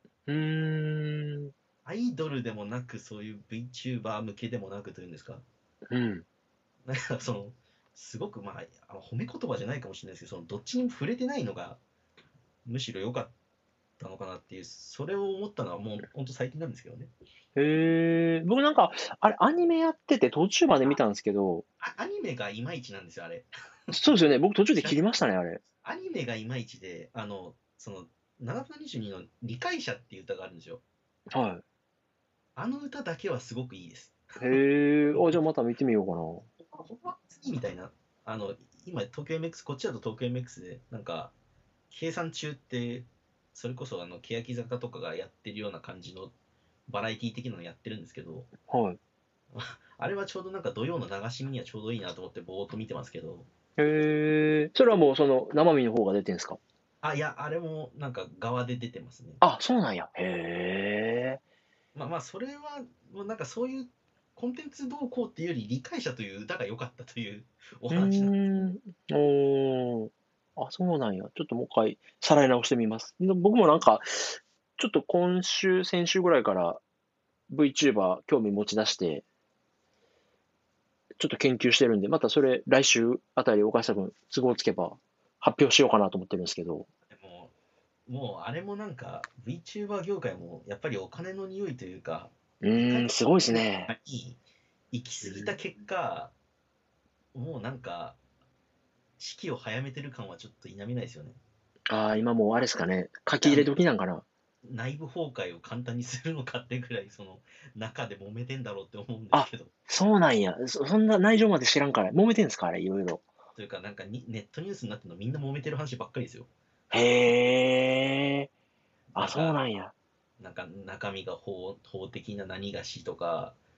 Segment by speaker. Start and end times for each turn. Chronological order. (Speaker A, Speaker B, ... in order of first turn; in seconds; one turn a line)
Speaker A: 0.3-1.5
Speaker B: 1.9-5.5
Speaker A: 5.9-6.3
Speaker B: 6.9-11.8
Speaker B: 12.7-13.3
Speaker B: 14.0-17.1
Speaker A: 17.6-21.6
Speaker B: 21.8-24.1
Speaker A: 23.9-25.6
Speaker B: 24.8-25.0
Speaker B: 25.8-30.8
Speaker A: 31.3-31.6
Speaker B: 32.6-35.4
Speaker A: 34.4-36.5
Speaker B: 36.6-41.3
Speaker B: 41.9-46.3
Speaker B: 46.9-48.5
Speaker A: 48.7-49.0
Speaker B: 49.5-53.5
Speaker A: 53.8-56.6
Speaker B: 57.0-59.4
Speaker A: 59.4-61.4
Speaker B: 62.0-68.4
Speaker A: 67.9-76.8
Speaker A: 77.5-79.2
Speaker A: 81.2-86.9
Speaker B: 87.1-87.5
Speaker B: 88.1-94.4
Speaker A: 92.6-93.9
Speaker B: 94.9-96.3
Speaker A: 95.2-95.5
Speaker B: 97.3-98.2
Speaker B: 99.2-101.4
Speaker A: 101.9-104.3
Speaker B: 103.4-103.8
Speaker B: 104.7-109.7
Speaker A: 109.3-113.2
Speaker B: 113.6-116.5
Speaker A: 116.9-118.5
Speaker B: 119.1-119.6
Speaker A: 119.2-119.9
Speaker B: 120.4-123.6